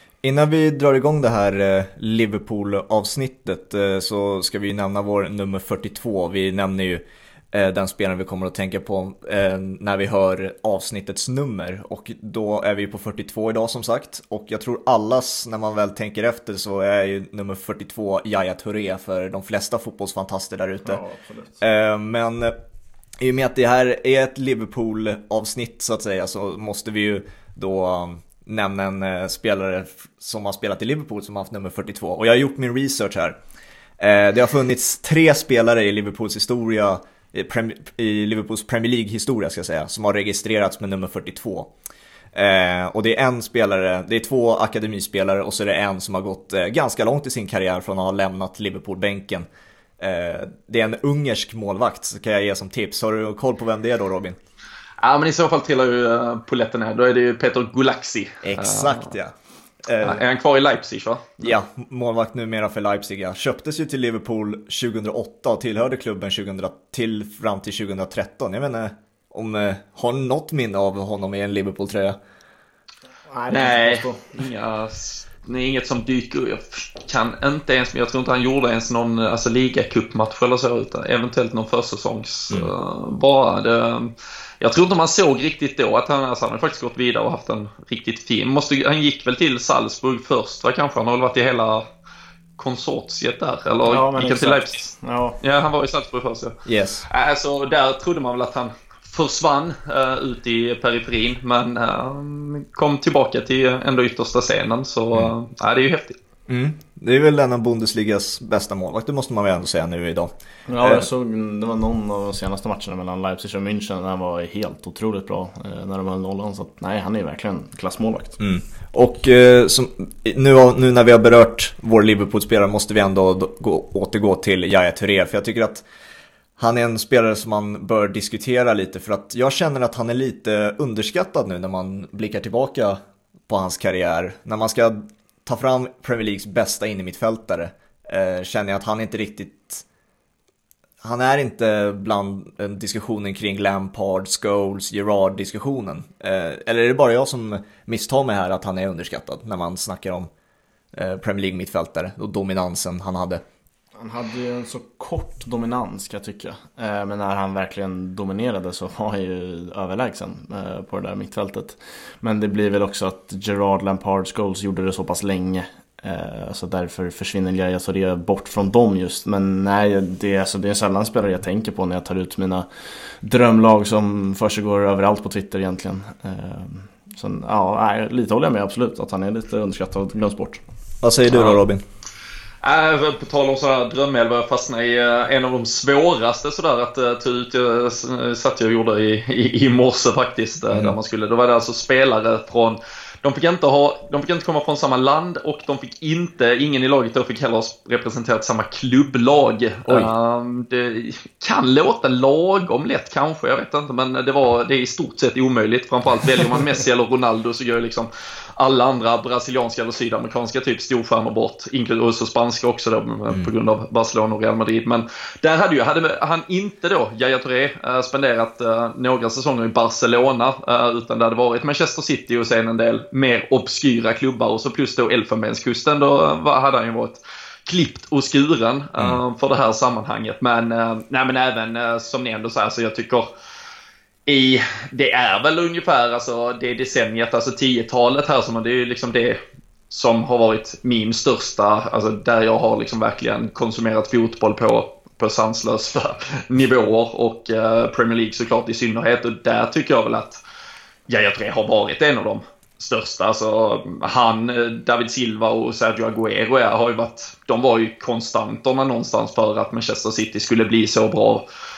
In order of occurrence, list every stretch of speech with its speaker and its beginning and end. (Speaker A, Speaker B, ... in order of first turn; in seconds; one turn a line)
Speaker A: 0.2-21.0
Speaker B: 20.9-21.6
Speaker A: 21.6-22.5
Speaker A: 23.2-33.4
Speaker A: 34.0-41.7
Speaker A: 42.3-49.5
Speaker A: 50.0-54.4
Speaker C: 55.0-59.1
Speaker A: 58.4-59.3
Speaker A: 59.8-60.2
Speaker C: 60.0-61.4
Speaker A: 61.4-72.2
Speaker B: 73.3-74.4
Speaker C: 73.5-91.8
Speaker C: 92.6-106.2
Speaker B: 93.9-95.4
Speaker A: 96.7-97.1
Speaker A: 106.5-111.1
Speaker B: 110.7-118.4
Speaker A: 118.4-125.8
Speaker A: 126.6-139.8
Speaker A: 141.0-150.3
Speaker A: 150.9-153.4
Speaker B: 154.0-172.7
Speaker B: 173.2-180.6
Speaker A: 181.0-181.8
Speaker C: 181.3-181.6
Speaker C: 182.6-233.3
Speaker C: 234.3-250.4
Speaker C: 251.1-261.5